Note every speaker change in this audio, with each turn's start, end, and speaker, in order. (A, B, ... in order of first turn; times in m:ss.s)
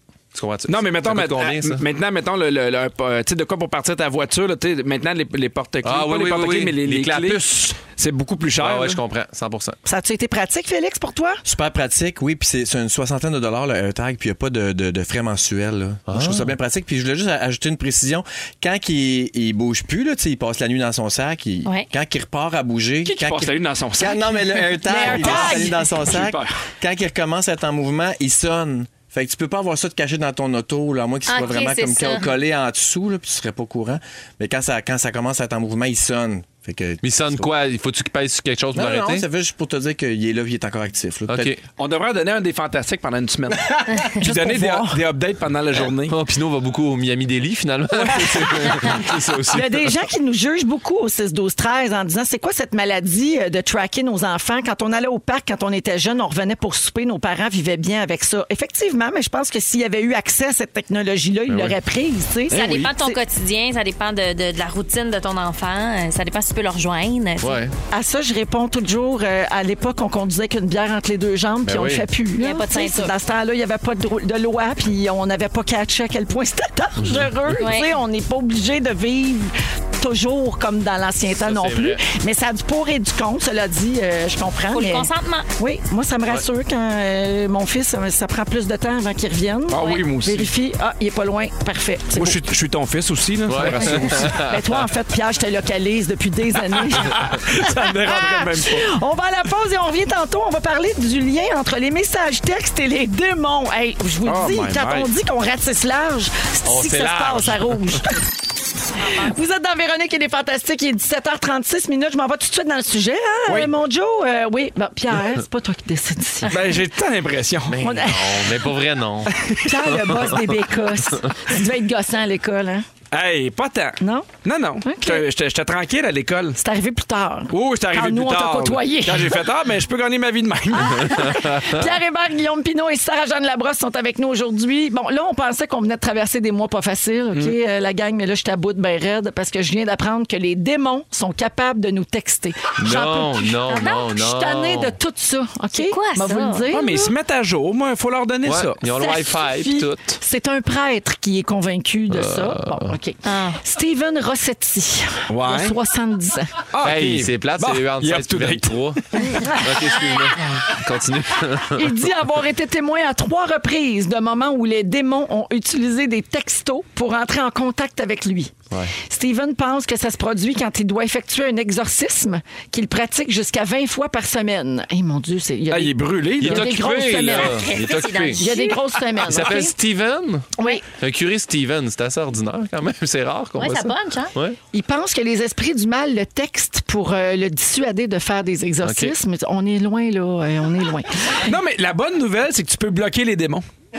0:00.3-0:01.8 A
0:00.7-0:09.0 B
0:05.8-0:07.8 A
0:08.6-0:09.8 A
0:09.8-0:11.4 C
0:11.4-0:37.4 D
0:16.1-0:16.5 A
0:23.0-0:26.6 B
0:24.9-0:25.8 C
0:31.3-0:32.3 E
0:37.0-0:39.3 A
0:38.7-0:41.5 D
0:41.3-0:41.6 A
0:41.8-0:46.2 B
0:43.8-0:44.1 D
0:44.2-0:45.0 C
0:45.7-0:49.9 A
0:48.0-0:49.0 B
0:49.5-1:03.2 C
1:01.5-1:01.8 A
1:02.5-1:07.6 E
1:02.5-1:02.9 B
1:07.4-1:07.7 A
1:07.9-1:32.4 C
1:11.6-1:12.0 A
1:12.4-1:13.1 E
1:17.0-1:17.6 A
1:17.6-1:17.9 E
1:21.3-1:22.0 A
1:24.7-1:25.5 E
1:29.7-1:30.5 B
1:29.8-1:30.0 E
1:32.1-1:34.4 B
1:33.5-1:34.9 A
1:33.6-1:48.3 C
1:36.7-1:38.9 B
1:44.2-1:45.1 B
1:46.6-1:48.0 A
1:49.1-1:56.6 C
1:53.5-1:53.7 B
1:56.5-1:57.9 B
1:57.7-1:59.3 A
1:57.8-1:58.5 C
1:59.3-2:00.2 B
1:59.6-2:02.9 C
2:03.1-2:06.6 B
2:04.0-2:04.3 C
2:04.8-2:05.2 C
2:06.6-2:09.4 C
2:07.5-2:11.4 B
2:10.7-2:27.1 C
2:22.8-2:25.0 A
2:23.7-2:24.1 E
2:25.7-2:26.7 E
2:26.7-2:28.8 B
2:28.4-2:30.2 A
2:28.9-2:36.6 C
2:32.1-2:33.0 A
2:33.2-2:33.6 E
2:35.3-2:35.8 B
2:36.7-2:39.4 B
2:36.8-2:42.1 A
2:39.4-2:39.7 C
2:41.7-2:59.7 C
2:55.7-2:57.4 B
2:56.4-2:58.5 A
2:57.3-2:58.8 E
2:59.2-3:04.6 A
3:03.6-3:04.3 E
3:04.7-3:11.5 C
3:08.8-3:09.2 A
3:11.4-3:13.6 B